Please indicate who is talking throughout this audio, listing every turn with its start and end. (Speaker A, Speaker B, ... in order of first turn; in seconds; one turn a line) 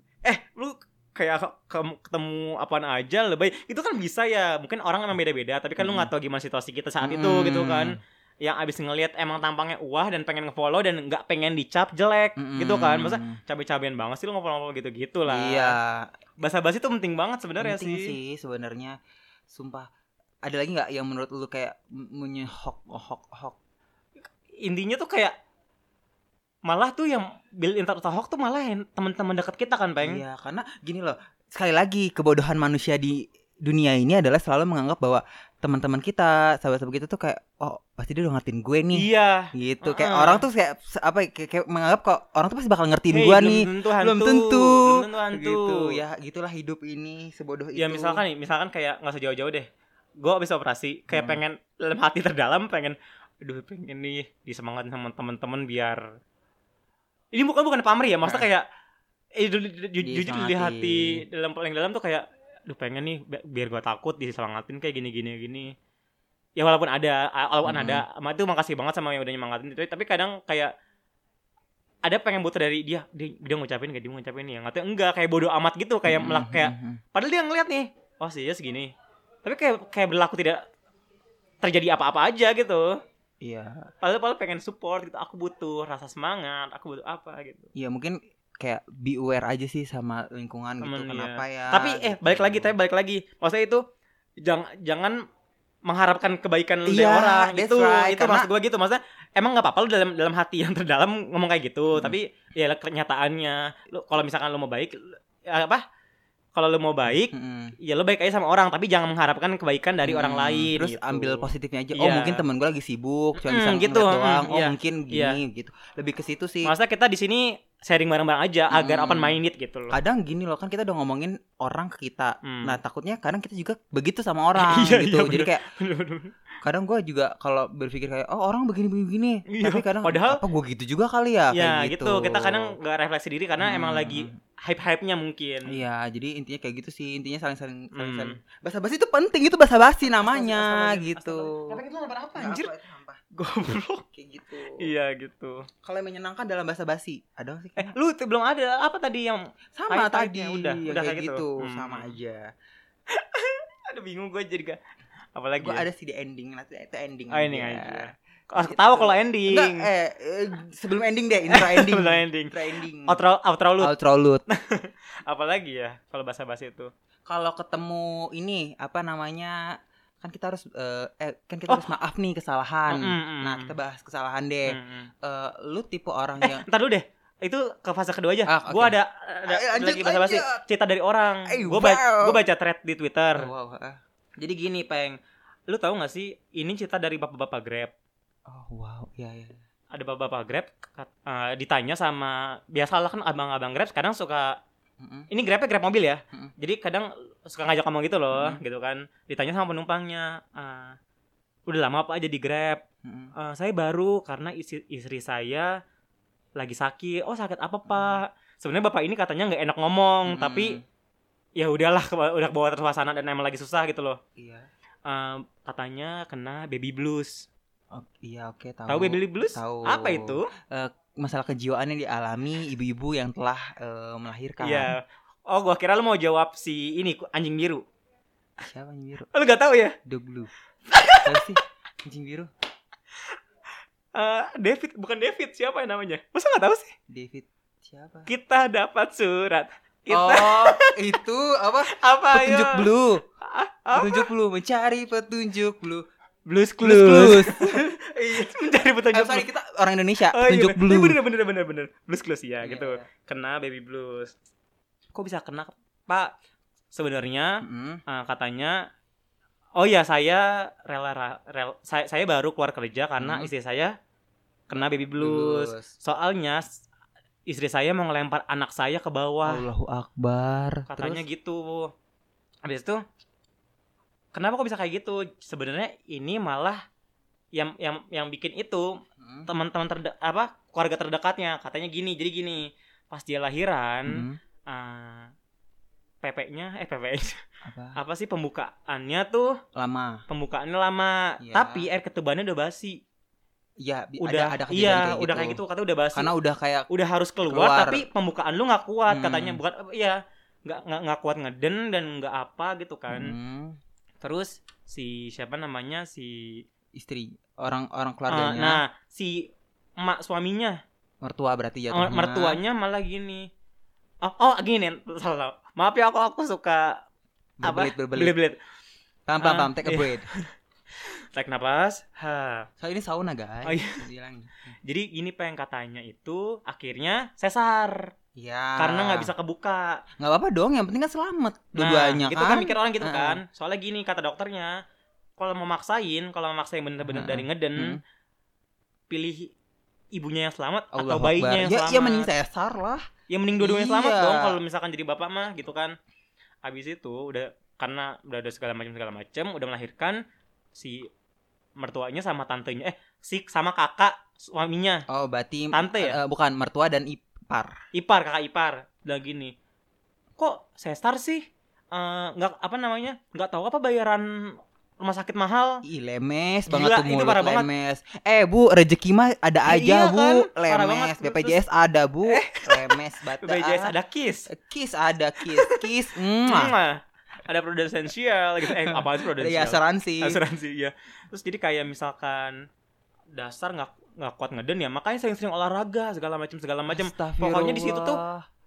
Speaker A: 0.2-15.8
Speaker B: 5.8-6.1
Speaker B: 7.0-8.0
Speaker B: 12.4-13.4
Speaker B: 15.3-16.1
Speaker A: 16.4-18.2
Speaker B: 17.6-19.0
Speaker B: 19.5-19.9
Speaker B: 20.4-23.6
Speaker A: 24.6-25.4
Speaker A: 26.6-30.2
Speaker B: 30.0-48.2
Speaker A: 38.9-40.5
Speaker A: 43.1-46.0
Speaker A: 47.8-49.7
Speaker A: 50.2-56.0
Speaker B: 51.1-51.4
Speaker A: 57.3-58.7
Speaker A: 59.4-65.7
Speaker B: 60.0-61.2
Speaker A: 66.6-70.7
Speaker B: 67.7-68.0
Speaker A: 72.0-78.9
Speaker B: 76.1-77.0
Speaker A: 79.4-80.6
Speaker A: 81.6-83.0
Speaker B: 83.4-83.9
Speaker A: 84.0-87.7
Speaker B: 87.8-92.7
Speaker A: 90.8-93.8
Speaker A: 94.4-95.2
Speaker A: 95.9-105.8
Speaker B: 96.9-98.5
Speaker A: 106.5-112.4
Speaker B: 107.2-107.8
Speaker B: 110.0-116.7
Speaker A: 113.4-115.4
Speaker A: 116.6-120.0
Speaker B: 118.7-119.4
Speaker B: 119.9-125.6
Speaker A: 122.4-122.8
Speaker A: 124.6-126.3
Speaker B: 126.6-132.7
Speaker A: 129.5-130.4
Speaker A: 131.5-135.8
Speaker B: 133.6-134.4
Speaker B: 135.7-141.8
Speaker A: 138.0-138.4
Speaker A: 140.0-142.7
Speaker B: 142.4-143.2
Speaker A: 143.3-144.0
Speaker B: 144.1-144.9
Speaker A: 144.8-145.7
Speaker B: 145.8-147.9
Speaker A: 147.8-152.2
Speaker B: 149.8-152.5
Speaker A: 153.1-154.8
Speaker A: 155.3-155.9
Speaker B: 155.6-163.2
Speaker A: 157.3-159.9
Speaker A: 161.5-163.9
Speaker B: 163.8-164.4
Speaker A: 164.5-166.9
Speaker B: 167.3-176.7
Speaker A: 172.9-173.7
Speaker A: 174.7-175.1
Speaker A: 176.4-183.5
Speaker B: 178.5-180.6
Speaker B: 181.5-182.4
Speaker B: 183.4-184.0
Speaker A: 184.4-187.9
Speaker B: 188.5-189.6
Speaker A: 189.9-194.6
Speaker B: 195.0-195.3
Speaker A: 195.3-201.0
Speaker B: 198.3-198.6
Speaker A: 201.7-202.8
Speaker B: 203.0-203.3
Speaker A: 203.3-205.7
Speaker A: 206.6-210.8
Speaker B: 207.9-208.2
Speaker B: 210.3-210.8
Speaker A: 211.6-214.2
Speaker B: 214.4-214.7
Speaker A: 215.1-217.5
Speaker B: 217.9-224.9
Speaker A: 218.9-220.5
Speaker A: 224.6-227.8
Speaker B: 228.6-229.3
Speaker A: 229.3-230.0
Speaker B: 230.1-230.5
Speaker A: 230.9-231.5
Speaker B: 231.2-232.5
Speaker A: 234.1-236.9
Speaker B: 237.1-238.3
Speaker A: 238.3-240.9
Speaker B: 240.1-243.2
Speaker A: 241.9-242.9
Speaker A: 243.4-244.3
Speaker B: 243.9-246.1
Speaker A: 246.5-249.5
Speaker B: 246.8-247.9
Speaker B: 249.1-251.2
Speaker A: 250.3-254.3
Speaker B: 252.6-253.1
Speaker A: 255.1-256.3
Speaker A: 256.9-258.8
Speaker B: 257.6-258.0
Speaker A: 259.8-263.9
Speaker B: 263.2-263.5
Speaker A: 264.7-266.7
Speaker B: 265.2-265.9
Speaker A: 267.5-269.6
Speaker B: 269.4-271.2
Speaker A: 270.9-271.9
Speaker A: 272.6-273.0
Speaker A: 274.3-276.8
Speaker A: 277.5-285.3
Speaker B: 279.2-279.5
Speaker B: 284.1-284.4
Speaker A: 286.2-287.4
Speaker B: 287.6-288.0
Speaker A: 288.0-289.6
Speaker B: 289.8-290.2
Speaker A: 290.3-293.0
Speaker B: 291.4-291.9
Speaker B: 293.8-295.6
Speaker A: 294.2-296.3
Speaker B: 296.1-296.9
Speaker A: 296.9-303.4
Speaker B: 297.5-298.1
Speaker B: 299.1-299.6
Speaker B: 303.1-303.8
Speaker A: 304.2-306.6
Speaker B: 307.0-308.8
Speaker A: 308.3-310.8
Speaker B: 311.2-312.6
Speaker A: 311.9-313.5
Speaker A: 314.2-317.0
Speaker B: 317.6-318.4
Speaker A: 317.6-318.6
Speaker B: 319.3-320.3
Speaker A: 319.4-322.7
Speaker B: 322.8-324.8
Speaker A: 323.7-324.0
Speaker A: 324.8-328.1
Speaker B: 328.4-329.3
Speaker A: 328.8-330.0
Speaker B: 330.2-333.4
Speaker A: 331.8-334.8
Speaker A: 335.4-338.0
Speaker B: 337.0-338.0
Speaker A: 339.1-339.5
Speaker A: 340.1-342.3
Speaker B: 340.9-343.1
Speaker A: 343.3-346.0
Speaker B: 343.6-344.6
Speaker A: 346.6-350.2
Speaker A: 350.7-351.1
Speaker A: 351.8-355.1
Speaker B: 355.1-357.8
Speaker A: 355.7-356.2
Speaker A: 357.9-359.5
Speaker A: 360.4-365.8
Speaker B: 365.8-373.9
Speaker A: 366.7-367.7
Speaker A: 369.7-371.6
Speaker A: 372.3-374.5
Speaker B: 374.5-376.7
Speaker A: 375.4-375.9
Speaker A: 376.4-382.7
Speaker B: 378.6-380.4
Speaker A: 383.3-388.2
Speaker B: 386.9-388.4